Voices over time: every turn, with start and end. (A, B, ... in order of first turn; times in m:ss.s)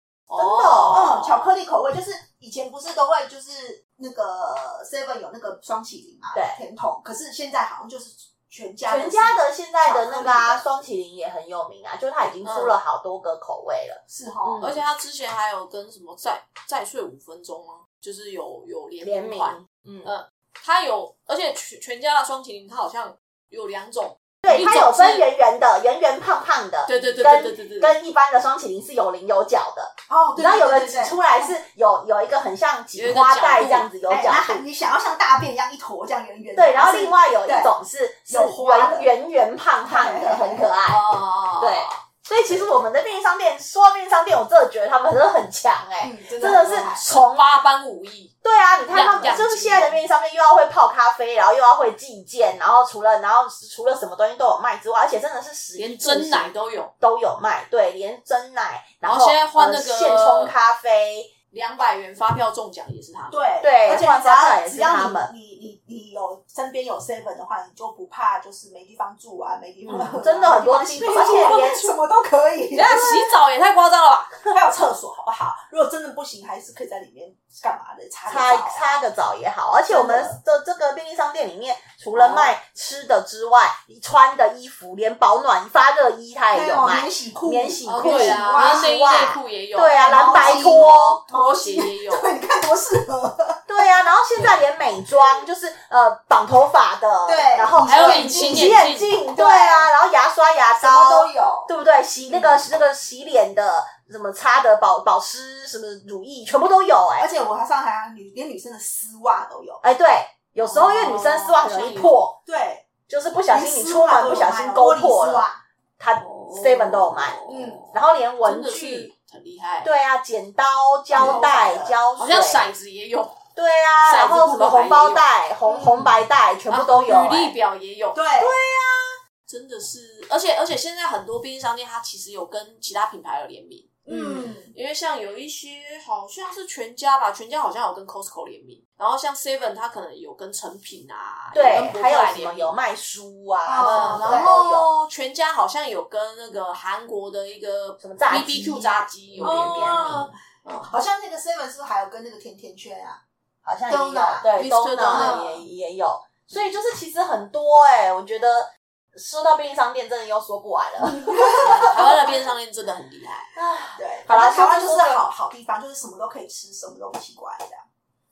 0:00.3-0:01.5 A
0:00.3-0:01.1 B
0:00.9-0:10.6 C
0:08.9-0:14.8 B
0:12.4-0:12.7 A
0:14.1-0:14.6 C
0:14.6-0:25.2 A
0:19.0-0:20.1 B
0:24.4-0:34.6 B
0:26.8-0:27.9 A
0:30.1-0:31.5 C
0:32.9-0:33.9 A
0:34.1-0:37.7 C
0:36.6-0:47.5 B
0:38.3-0:39.1 C
0:39.8-0:40.7 C
0:40.9-0:42.0 A
0:46.0-0:47.0 C
0:47.0-0:48.3 A
0:48.4-1:01.3 B
0:48.9-0:50.0 A
0:55.8-0:56.9 A
0:59.0-1:00.5 A
1:01.5-1:03.4 A
1:03.3-1:13.3 C
1:03.6-1:05.3 B
1:09.8-1:11.9 B
1:11.1-1:11.6 A
1:12.7-1:14.4 A
1:14.5-1:19.0 C
1:18.3-1:31.2 B
1:19.9-1:20.4 C
1:22.1-1:22.5 A
1:26.5-1:28.9 C
1:27.8-1:32.3 A
1:29.9-1:33.6 C
1:33.7-1:47.3 B
1:34.3-1:34.6 A
1:37.2-1:38.8 C
1:37.8-1:39.2 A
1:39.3-1:39.9 C
1:40.8-1:41.7 C
1:42.3-1:42.6 C
1:47.2-1:49.8 C
1:49.8-1:52.4 B
1:50.6-1:52.2 A
1:52.4-1:52.9 C
1:53.1-1:55.4 B
1:53.5-1:55.6 C
1:56.0-1:57.4 B
1:56.2-1:59.9 A
1:57.5-1:57.8 C
1:57.9-1:59.1 B
1:59.8-2:02.6 B
2:01.1-2:02.0 C
2:01.2-2:01.4 A
2:02.2-2:03.4 A
2:03.6-2:07.5 B
2:04.1-2:05.3 A
2:05.6-2:06.1 C
2:06.7-2:08.2 A
2:08.1-2:08.6 C
2:08.4-2:09.2 B
2:09.5-2:22.8 A
2:14.0-2:14.7 C
2:14.1-2:14.5 B
2:21.5-2:24.9 B
2:23.6-2:24.5 C
2:23.8-2:30.9 A
2:28.0-2:30.3 B
2:29.4-2:33.2 C
2:33.6-2:42.0 B
2:33.9-2:34.5 C
2:34.5-2:35.6 A
2:35.1-2:35.5 C
2:41.1-2:42.1 C
2:41.6-2:43.5 A
2:43.5-2:45.2 B
2:44.0-2:47.8 C